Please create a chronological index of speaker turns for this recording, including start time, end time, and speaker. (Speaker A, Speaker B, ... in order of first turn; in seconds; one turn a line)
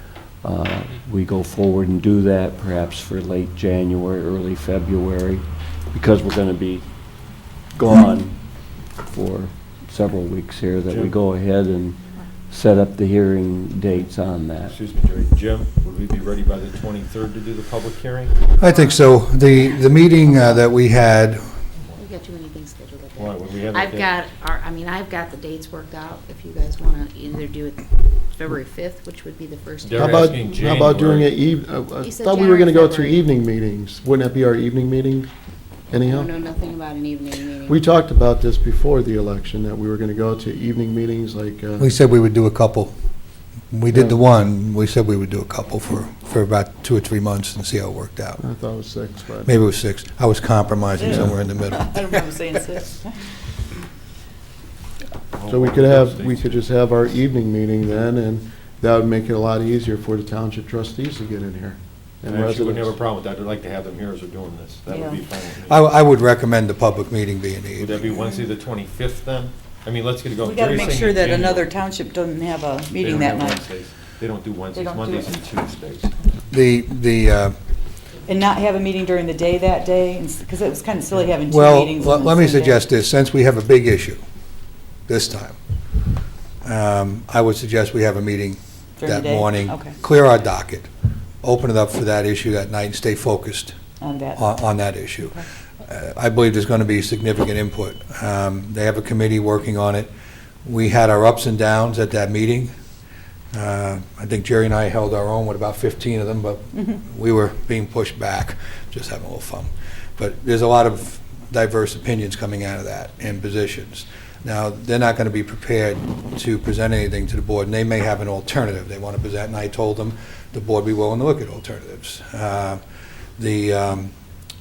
Speaker A: 0.3-14.8
Speaker B: 10.8-11.2
Speaker B: 14.7-18.5
Speaker C: 18.6-21.4
Speaker D: 18.6-19.1
Speaker D: 20.2-20.6
Speaker D: 22.0-30.5
Speaker B: 23.2-24.1
Speaker B: 29.8-31.4
Speaker E: 30.0-35.3
Speaker D: 32.0-33.3
Speaker E: 35.9-36.3
Speaker D: 36.1-37.8
Speaker E: 37.7-41.9
Speaker C: 41.8-42.9
Speaker C: 43.7-48.4
Speaker E: 43.9-44.2
Speaker E: 48.4-49.5
Speaker C: 49.5-52.1
Speaker F: 51.0-53.3
Speaker B: 55.3-56.7
Speaker E: 55.5-63.0
Speaker B: 62.3-65.9
Speaker F: 64.9-65.2
Speaker C: 65.7-68.0
Speaker B: 67.8-71.7
Speaker F: 70.4-73.7
Speaker B: 73.0-76.1
Speaker F: 74.7-75.4
Speaker C: 76.5-77.6
Speaker F: 78.3-82.8
Speaker C: 81.5-84.2
Speaker C: 85.1-85.6
Speaker C: 86.6-90.9
Speaker F: 89.0-90.0
Speaker C: 91.4-93.7
Speaker F: 94.0-94.5
Speaker C: 94.3-100.1
Speaker C: 100.6-102.7
Speaker C: 103.5-122.8
Speaker C: 123.4-124.1